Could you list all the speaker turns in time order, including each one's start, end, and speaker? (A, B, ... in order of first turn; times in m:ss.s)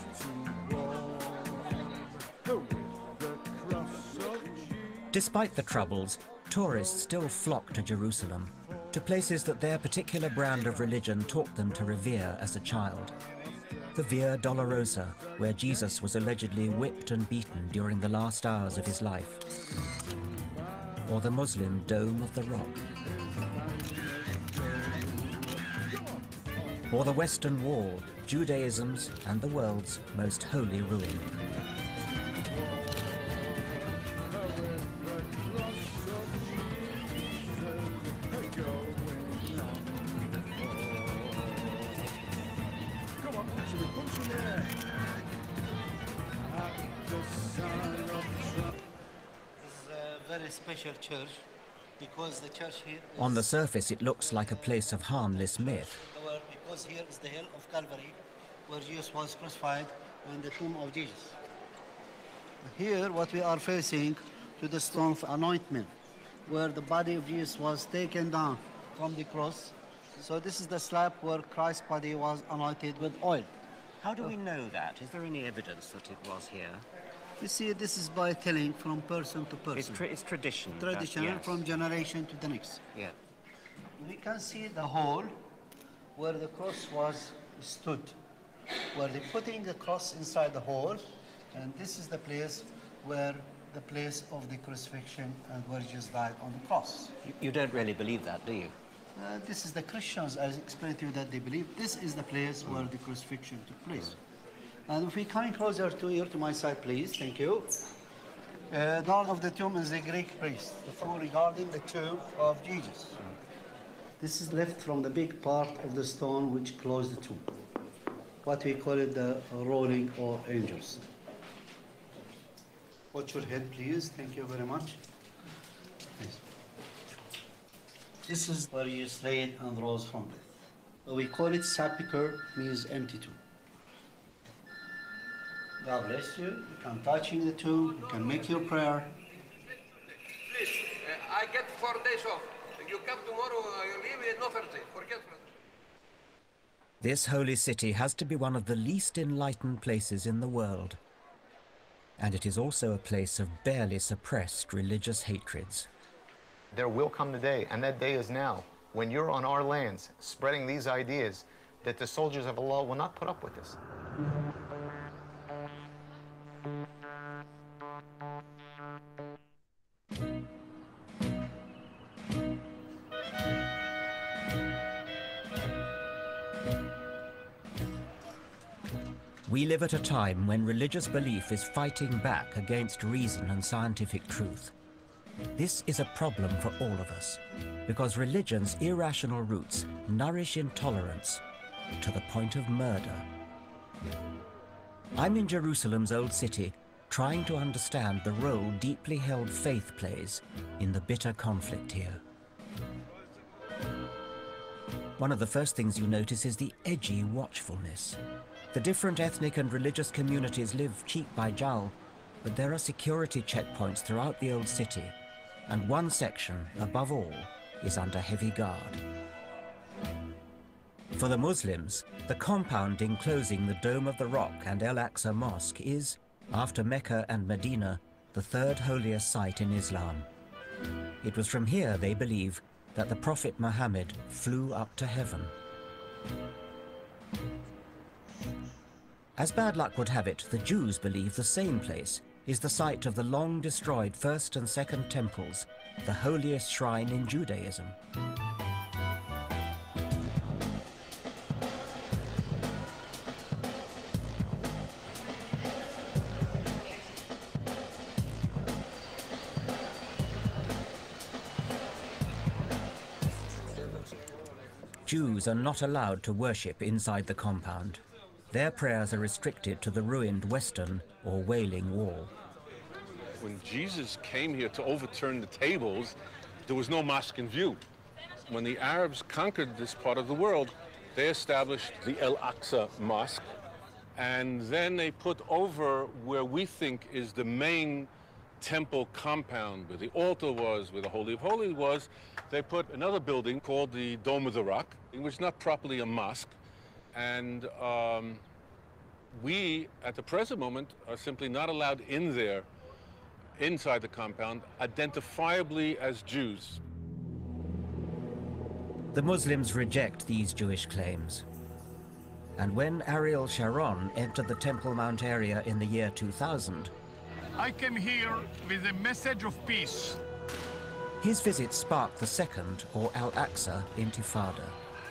0:05.1-0:13.1 A
0:13.9-0:19.4 A
0:21.0-0:22.8 A
0:26.9-0:31.3 A
0:49.6-0:51.4 B
0:52.0-0:53.4 B
0:53.2-0:56.0 A
0:56.1-0:58.2 B
0:58.7-1:01.4 B
1:02.6-1:05.9 B
1:06.5-1:13.5 B
1:14.0-1:16.8 A
1:17.4-1:20.0 B
1:19.7-1:21.6 A
1:20.8-1:22.8 B
1:24.0-1:25.4 B
1:26.2-1:28.2 B
1:28.9-1:37.1 B
1:37.2-1:38.8 A
1:39.2-1:44.2 B
1:44.9-1:47.8 B
1:48.7-1:53.2 B
1:54.2-1:57.6 B
1:58.4-2:01.0 B
2:03.1-2:05.0 B
2:08.2-2:13.4 B
2:15.8-2:19.1 B
2:20.5-2:25.4 C
2:27.0-2:31.0 A
2:32.2-2:35.9 A
2:36.7-2:43.8 D
2:59.4-3:04.7 A
3:05.6-3:11.4 A
3:12.0-3:13.2 A
3:15.2-3:22.2 A
3:25.2-3:28.2 A
3:28.7-3:35.1 A
3:35.7-3:39.0 A
3:41.1-3:50.3 A
3:51.2-3:55.5 A
3:59.4-4:08.0 A
4:25.0-4:32.3 A
4:33.4-4:37.8 E
4:38.5-4:43.4 E
4:44.2-4:48.1 E
4:48.6-4:56.6 E
4:57.1-4:58.4 E
4:59.3-5:02.7 E
5:03.6-5:06.8 E
5:09.1-5:11.4 A
5:12.6-5:16.9 A
5:17.6-5:20.2 F
5:21.2-5:24.8 A